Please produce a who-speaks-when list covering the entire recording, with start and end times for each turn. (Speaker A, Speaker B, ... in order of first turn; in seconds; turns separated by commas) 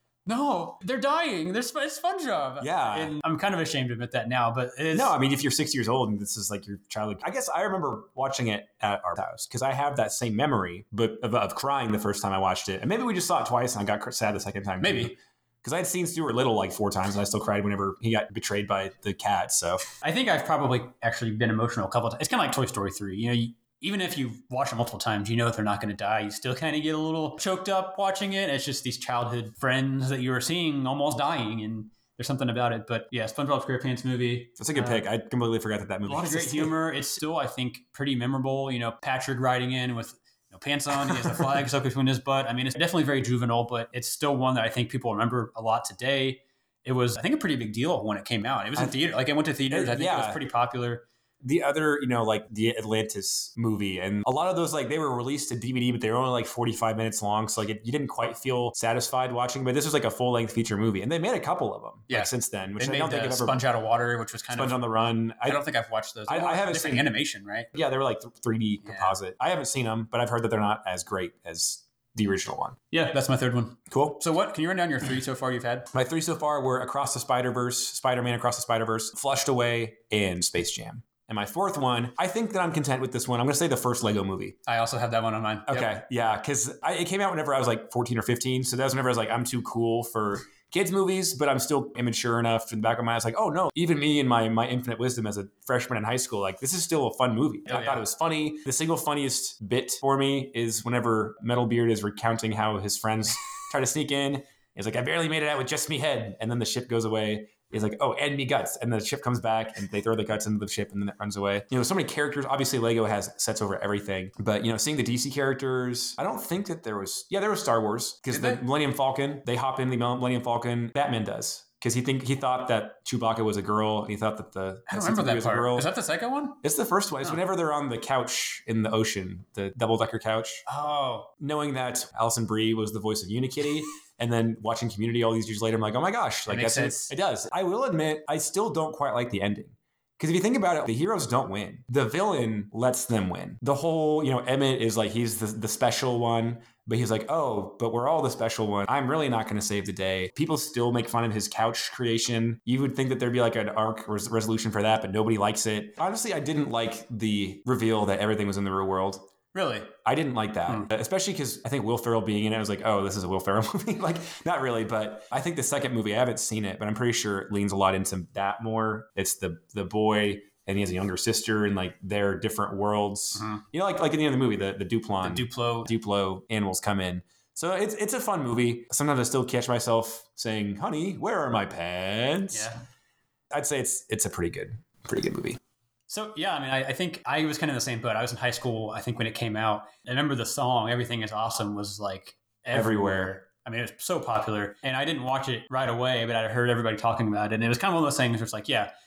Speaker A: 0.2-5.1, Speaker B: 2.6-3.2, Speaker B: 4.9-19.9, Speaker A: 14.8-15.1, Speaker A: 20.0-35.0, Speaker B: 34.6-36.8, Speaker A: 36.1-51.0, Speaker B: 41.0-41.5, Speaker B: 48.8-49.0, Speaker B: 49.7-50.4, Speaker B: 51.4-63.6, Speaker A: 62.1-67.7, Speaker B: 64.5-65.6, Speaker B: 66.3-67.1, Speaker B: 67.7-72.8, Speaker A: 68.8-69.1, Speaker A: 72.9-75.9, Speaker B: 73.9-74.2, Speaker B: 75.9-84.6, Speaker A: 84.7-85.9, Speaker B: 85.7-125.9, Speaker A: 97.7-98.0, Speaker A: 118.3-118.6, Speaker A: 124.9-126.6, Speaker B: 126.6-130.6, Speaker A: 130.7-131.3, Speaker B: 131.4-159.2, Speaker A: 136.5-137.1, Speaker A: 159.5-159.9, Speaker B: 160.1-182.7, Speaker A: 173.3-173.6, Speaker A: 175.2-175.9, Speaker A: 182.5-182.8, Speaker B: 183.5-185.6, Speaker A: 186.1-198.9, Speaker B: 192.7-193.4